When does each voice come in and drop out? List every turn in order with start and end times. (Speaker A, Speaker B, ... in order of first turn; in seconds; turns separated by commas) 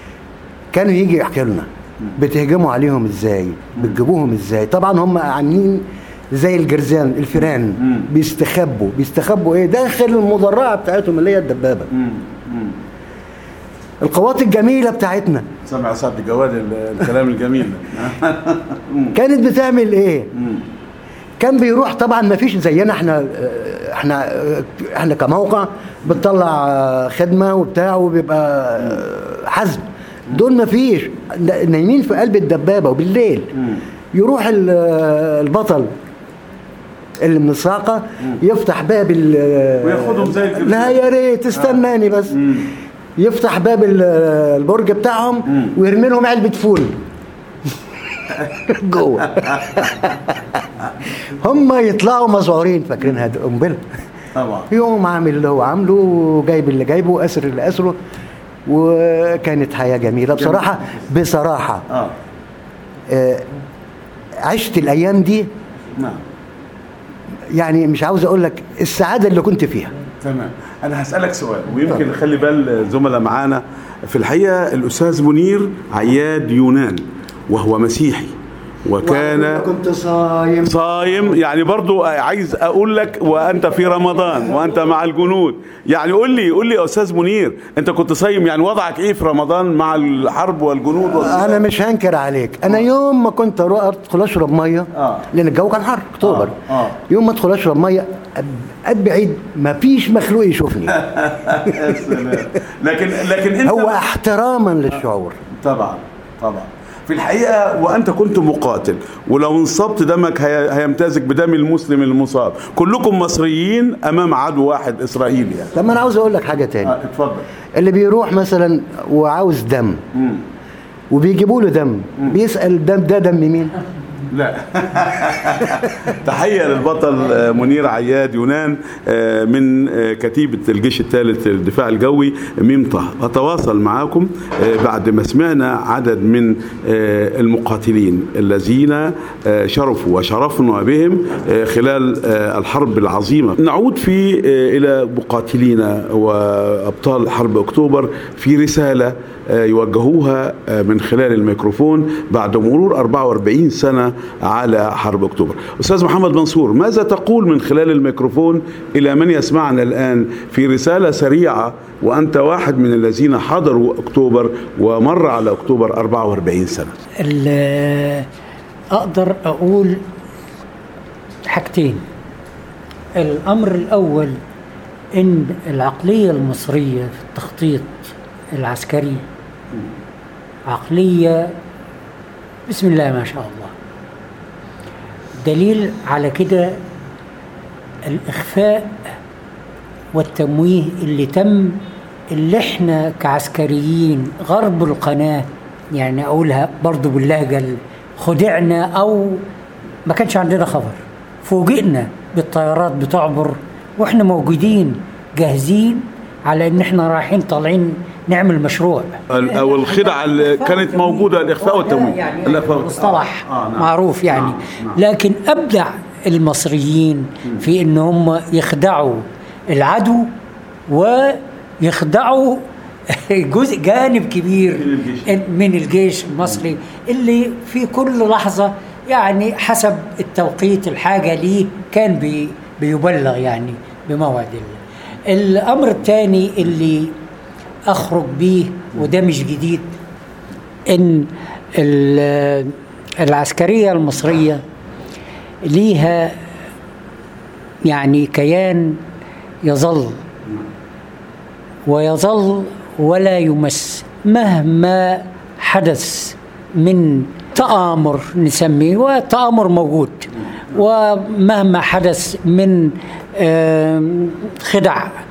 Speaker A: 0.7-11.9, Speaker B: 11.9-12.8, Speaker A: 14.0-15.5, Speaker B: 15.7-19.1, Speaker A: 19.1-20.3, Speaker A: 21.4-33.6, Speaker A: 34.1-35.9, Speaker A: 37.2-42.5, Speaker B: 39.8-41.0, Speaker A: 43.2-47.0, Speaker A: 48.7-50.1, Speaker A: 51.4-53.8, Speaker B: 54.4-54.7, Speaker A: 54.7-58.0, Speaker A: 58.7-61.9, Speaker A: 63.1-63.5, Speaker A: 64.5-65.5, Speaker A: 67.5-69.9, Speaker B: 70.2-79.7, Speaker A: 79.0-80.8, Speaker B: 80.7-91.6, Speaker A: 91.1-101.0, Speaker B: 95.0-95.2, Speaker B: 96.2-97.0, Speaker B: 101.0-104.0, Speaker A: 103.6-105.4, Speaker B: 105.6-115.7, Speaker A: 115.8-116.9, Speaker B: 116.8-117.5, Speaker A: 117.8-120.0, Speaker A: 121.1-123.7, Speaker B: 124.3-166.9, Speaker C: 167.2-168.3, Speaker C: 168.9-170.0, Speaker C: 171.4-172.0, Speaker C: 173.2-174.4, Speaker C: 175.1-179.2, Speaker C: 180.7-181.5, Speaker C: 182.7-183.7, Speaker C: 185.4-186.8, Speaker C: 188.1-189.0, Speaker C: 190.1-191.8, Speaker C: 192.3-199.4, Speaker C: 200.1-220.3, Speaker B: 209.3-215.0, Speaker C: 220.9-237.1, Speaker B: 224.8-225.3, Speaker C: 237.9-239.9, Speaker C: 240.9-244.6, Speaker C: 245.6-246.4, Speaker C: 247.8-249.0, Speaker C: 249.6-250.2, Speaker C: 251.9-265.1